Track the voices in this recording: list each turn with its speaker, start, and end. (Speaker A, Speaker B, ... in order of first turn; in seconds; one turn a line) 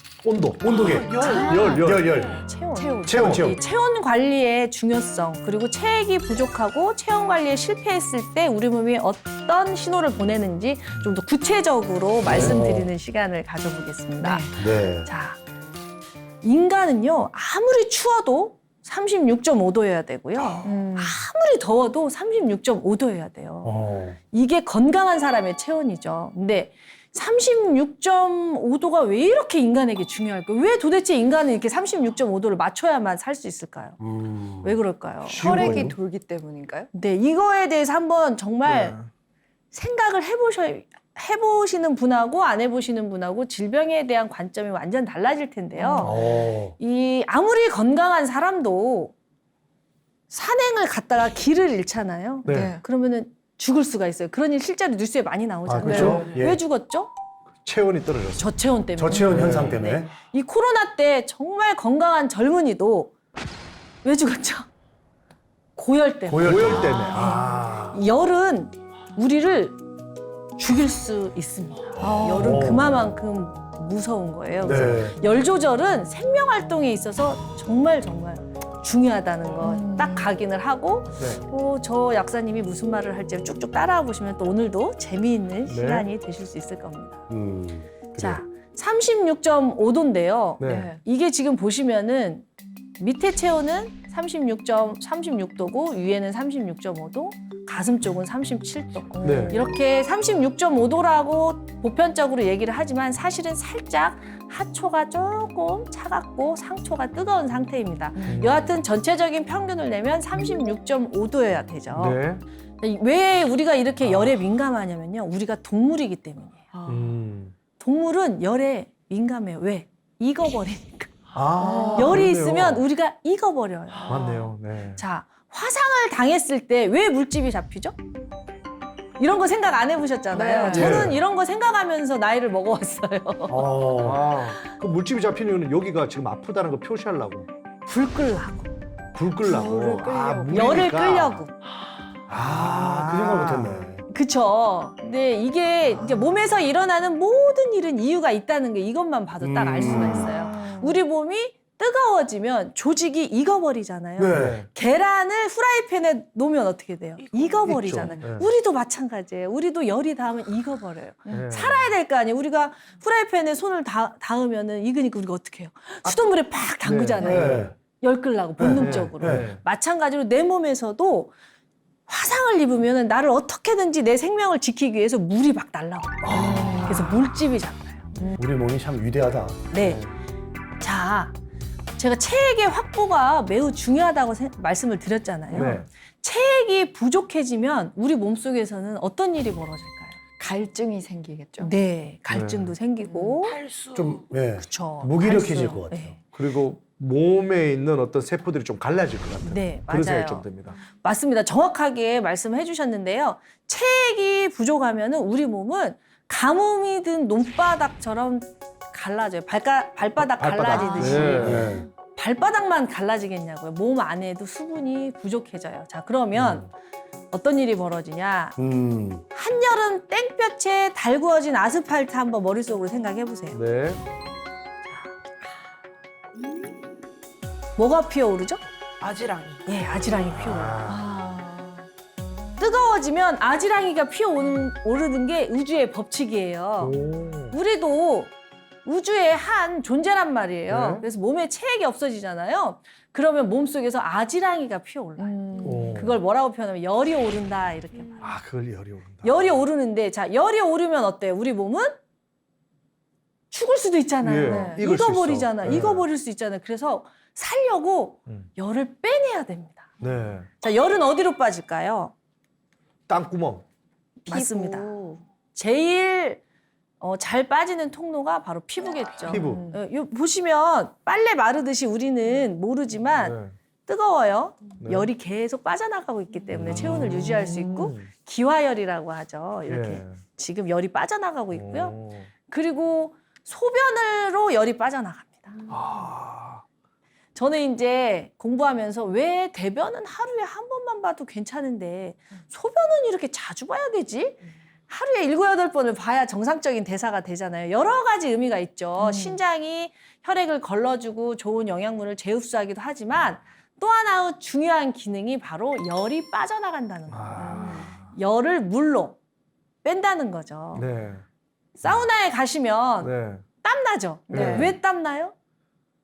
Speaker A: 0.2-3.5
Speaker B: 0.4-2.2
Speaker C: 0.8-2.4
Speaker D: 1.1-1.8
Speaker D: 2.4-15.4
Speaker B: 3.1-3.5
Speaker C: 3.1-3.6
Speaker C: 12.3-12.9
Speaker A: 12.3-12.5
Speaker A: 14.2-14.5
Speaker C: 14.6-15.1
Speaker D: 16.4-23.8
Speaker A: 20.6-21.1
Speaker C: 23.6-24.2
Speaker D: 24.3-34.0
Speaker C: 34.0-34.7
Speaker D: 34.6-35.9
Speaker A: 35.3-36.9
Speaker C: 35.3-36.0
Speaker D: 36.9-39.0
Speaker D: 39.7-49.1
Speaker A: 45.8-46.3
Speaker C: 46.0-46.8
Speaker D: 50.3-57.1
Speaker B: 52.5-52.8
Speaker A: 52.5-52.8
Speaker B: 55.7-56.5
Speaker C: 55.8-56.6
Speaker A: 55.9-56.3
Speaker B: 57.6-58.5
Speaker D: 58.4-63.1
Speaker C: 59.0-60.1
Speaker B: 59.2-59.9
Speaker D: 64.0-64.7
Speaker D: 65.8-69.8
Speaker C: 66.3-67.1
Speaker B: 66.4-68.0
Speaker A: 66.7-67.6
Speaker D: 70.6-87.3
Speaker A: 72.0-72.7
Speaker C: 72.3-73.0
Speaker C: 74.6-75.2
Speaker A: 79.6-80.3
Speaker B: 81.2-81.4
Speaker B: 85.7-86.1
Speaker C: 87.3-88.4
Speaker D: 88.2-92.5
Speaker B: 90.6-90.9
Speaker A: 90.6-91.0
Speaker D: 93.0-112.2
Speaker A: 99.2-99.6
Speaker B: 99.2-99.6
Speaker B: 108.3-108.8
Speaker B: 111.9-112.4
Speaker D: 112.8-116.7
Speaker A: 116.7-117.1
Speaker B: 116.9-117.5
Speaker D: 117.8-121.1
Speaker B: 121.3-122.9
Speaker A: 121.6-122.2
Speaker D: 121.9-124.2
Speaker A: 124.0-124.5
Speaker B: 124.1-125.0
Speaker D: 125.0-128.0
Speaker D: 129.2-133.7
Speaker A: 130.3-131.1
Speaker C: 130.7-131.2
Speaker C: 133.5-134.3
Speaker B: 134.0-137.5
Speaker D: 137.9-138.7
Speaker B: 139.2-141.4
Speaker A: 139.4-140.9
Speaker D: 140.5-141.5
Speaker C: 142.3-144.0
Speaker B: 142.3-143.9
Speaker D: 144.1-171.3
Speaker C: 149.4-150.4
Speaker A: 149.8-150.9
Speaker C: 154.2-154.6
Speaker B: 154.3-154.7
Speaker B: 157.6-158.5
Speaker B: 161.3-161.9
Speaker B: 166.8-167.7
Speaker C: 167.2-167.7
Speaker C: 168.6-169.5
Speaker B: 168.7-169.6
Speaker D: 172.1-178.1
Speaker C: 176.2-176.8
Speaker A: 176.3-177.1
Speaker B: 176.5-176.9
Speaker C: 178.3-179.7
Speaker D: 179.7-180.1
Speaker B: 179.8-180.1
Speaker D: 180.8-181.3
Speaker D: 182.0-190.2
Speaker A: 185.5-185.8
Speaker B: 185.5-185.9
Speaker A: 190.4-191.7
Speaker D: 191.6-193.6
Speaker B: 192.3-192.8
Speaker A: 193.1-193.4
Speaker C: 193.9-196.1
Speaker D: 194.6-196.2
Speaker B: 196.3-200.8
Speaker D: 199.4-216.7
Speaker B: 210.4-211.7
Speaker C: 210.6-211.9
Speaker A: 211.0-211.7
Speaker B: 216.3-216.7
Speaker D: 217.3-218.6
Speaker C: 218.6-219.2
Speaker D: 219.3-223.6
Speaker B: 223.5-224.0
Speaker D: 227.8-228.6
Speaker D: 229.7-230.9
Speaker B: 230.4-231.1
Speaker A: 230.8-231.9
Speaker D: 232.6-237.0
Speaker B: 236.8-237.6
Speaker D: 237.5-238.3
Speaker D: 238.8-248.4
Speaker B: 240.7-241.1
Speaker A: 245.2-246.0
Speaker B: 245.6-246.2
Speaker B: 248.2-249.6
Speaker D: 249.2-252.0
Speaker D: 253.5-259.9
Speaker B: 254.2-256.1
Speaker A: 254.4-254.8
Speaker B: 260.0-260.5
Speaker D: 260.6-262.1
Speaker B: 263.1-263.6
Speaker D: 264.2-264.9
Speaker A: 264.3-265.2
Speaker D: 265.5-266.4
Speaker D: 267.0-285.6
Speaker A: 269.3-269.8
Speaker B: 269.3-269.7
Speaker B: 273.2-273.5
Speaker B: 274.8-275.1
Speaker B: 276.5-278.1
Speaker B: 279.7-280.2
Speaker B: 281.5-282.3
Speaker B: 285.7-286.6
Speaker D: 287.4-309.2
Speaker A: 299.0-299.4
Speaker B: 307.1-308.1
Speaker A: 307.4-307.9
Speaker D: 309.8-310.8
Speaker B: 310.8-311.2
Speaker D: 311.8-315.3
Speaker B: 313.0-313.4
Speaker A: 314.3-314.7
Speaker B: 314.3-314.8